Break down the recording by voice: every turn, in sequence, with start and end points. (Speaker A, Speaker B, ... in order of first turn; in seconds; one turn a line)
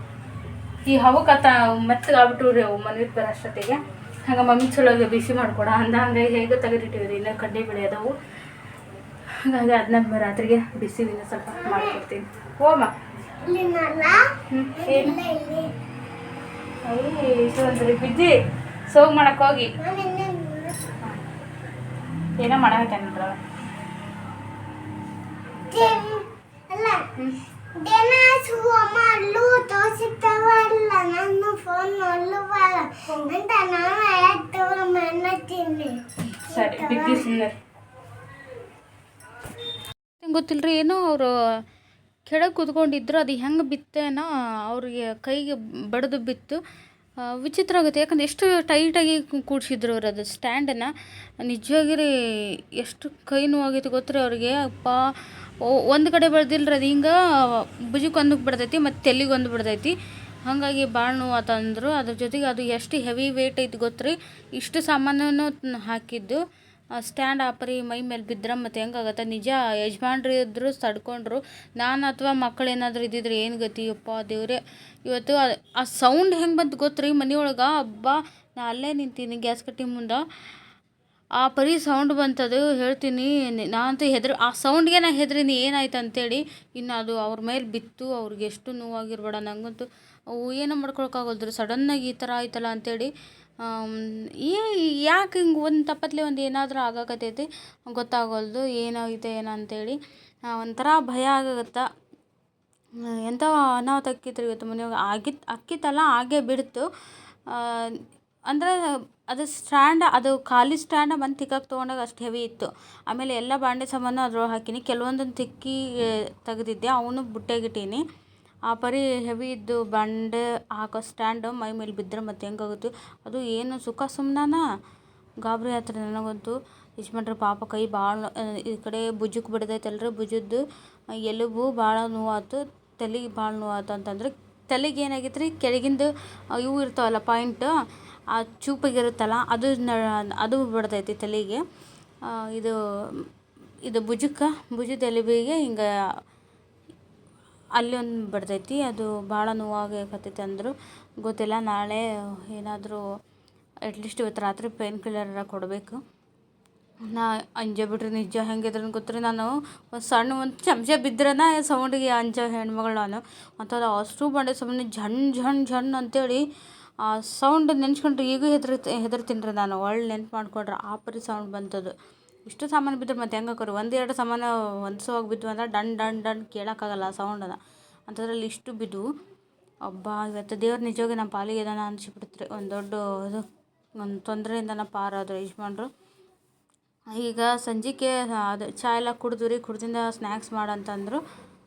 Speaker A: 0.8-8.1
Speaker A: 9.4-12.9
Speaker B: 11.6-11.9
Speaker B: 13.4-15.7
Speaker A: 14.5-15.2
Speaker A: 16.8-18.3
Speaker A: 18.9-19.7
Speaker B: 19.8-20.8
Speaker A: 22.4-23.4
Speaker B: 25.7-27.1
Speaker A: 25.7-26.0
Speaker B: 27.7-37.3
Speaker A: 36.3-37.6
Speaker A: 40.2-41.3
Speaker A: 42.2-46.6
Speaker A: 47.2-50.9
Speaker A: 51.4-55.0
Speaker A: 55.6-59.9
Speaker A: 60.5-66.4
Speaker A: 67.0-80.2
Speaker A: 81.4-93.1
Speaker A: 93.6-100.0
Speaker A: 100.5-101.8
Speaker A: 103.2-106.8
Speaker A: 107.5-108.8
Speaker A: 109.3-115.8
Speaker A: 116.4-118.0
Speaker A: 118.7-124.6
Speaker A: 125.4-130.6
Speaker A: 131.2-137.7
Speaker A: 138.3-141.6
Speaker A: 142.2-143.3
Speaker A: 143.8-145.9
Speaker A: 147.8-153.0
Speaker A: 153.8-156.0
Speaker A: 157.0-166.4
Speaker A: 167.0-171.9
Speaker A: 172.4-179.1
Speaker A: 179.8-183.4
Speaker A: 184.0-185.9
Speaker A: 187.1-191.2